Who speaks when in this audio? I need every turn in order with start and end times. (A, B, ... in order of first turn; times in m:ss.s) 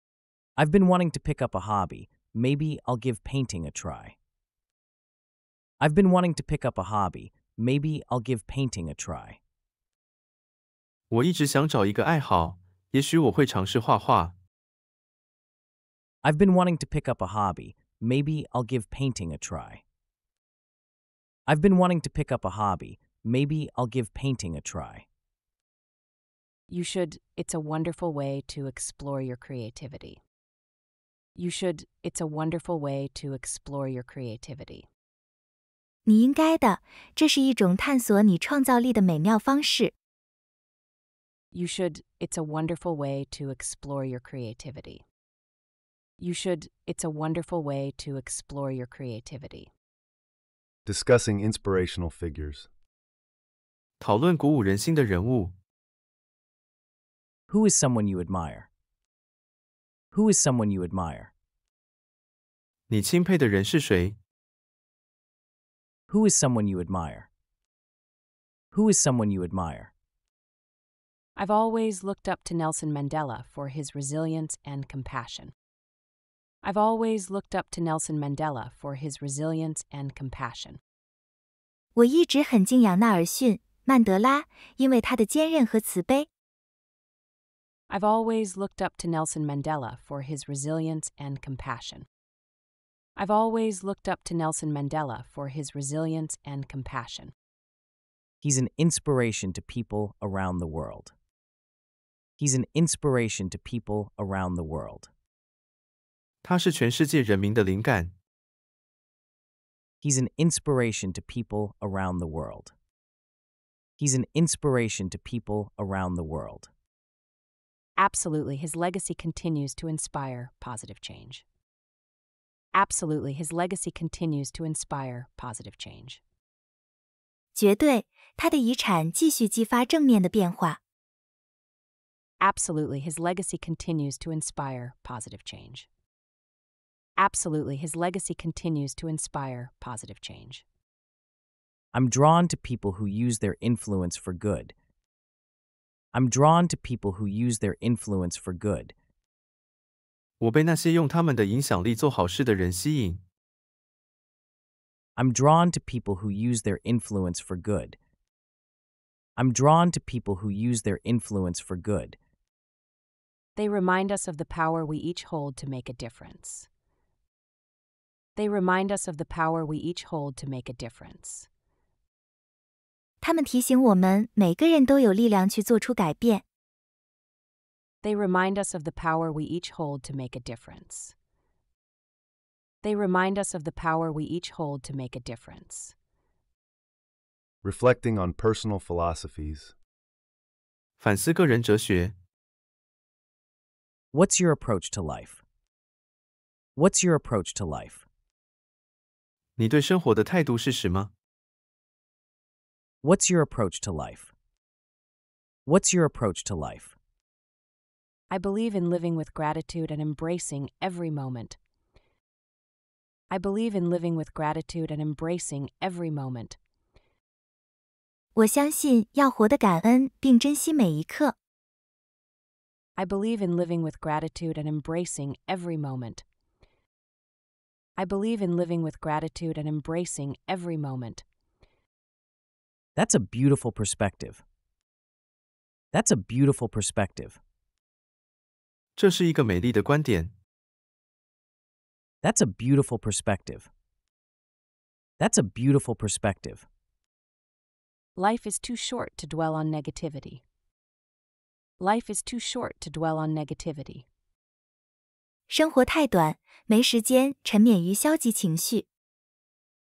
0:00.6-0:04.2 A
0:05.8-0:09.4 A
0:11.1-0:14.3 B
0:16.2-0:19.8 A
0:21.5-0:25.0 A
0:26.7-0:30.2 C
0:31.4-0:34.9 C
0:36.0-0:39.9 D
0:41.5-0:45.0 C
0:46.2-0:49.7 C
0:50.8-0:52.7 E
0:54.0-0:55.5 B
0:57.5-0:58.7 A
1:00.1-1:01.3 A
1:02.9-1:04.2 B
1:06.1-1:07.3 A
1:08.7-1:09.9 A
1:11.4-1:15.5 C
1:16.6-1:20.8 C
1:22.0-1:26.3 D
1:27.9-1:32.0 C
1:33.2-1:37.3 C
1:38.4-1:41.1 A
1:42.4-1:45.1 A
1:46.4-1:48.1 B
1:50.0-1:52.7 A
1:54.0-1:56.7 A
1:58.0-2:01.4 C
2:02.7-2:06.2 C
2:07.5-2:10.8 D
2:12.4-2:15.9 C
2:17.2-2:20.6 C
2:21.9-2:24.7 A
2:26.1-2:28.9 A
2:30.4-2:33.2 B
2:35.2-2:38.0 A
2:39.4-2:42.2 A
2:43.6-2:46.7 C
2:48.4-2:51.5 C
2:53.2-2:56.4 D
2:58.0-3:01.1 C
3:02.8-3:05.9 C
3:07.6-3:09.7 E
3:11.0-3:12.1 B
3:14.1-3:15.4 A
3:16.8-3:18.0 A
3:19.6-3:21.1 B
3:23.0-3:24.3 A
3:25.6-3:26.9 A
3:28.3-3:31.6 C
3:33.3-3:36.6 C
3:38.4-3:41.3 D
3:43.0-3:46.2 C
3:48.0-3:51.2 C
3:53.0-3:54.4 A
3:55.9-3:57.4 A
3:59.0-4:00.3 B
4:02.2-4:03.7 A
4:05.2-4:06.6 A
4:08.2-4:10.4 C
4:11.8-4:14.0 C
4:15.5-4:18.8 D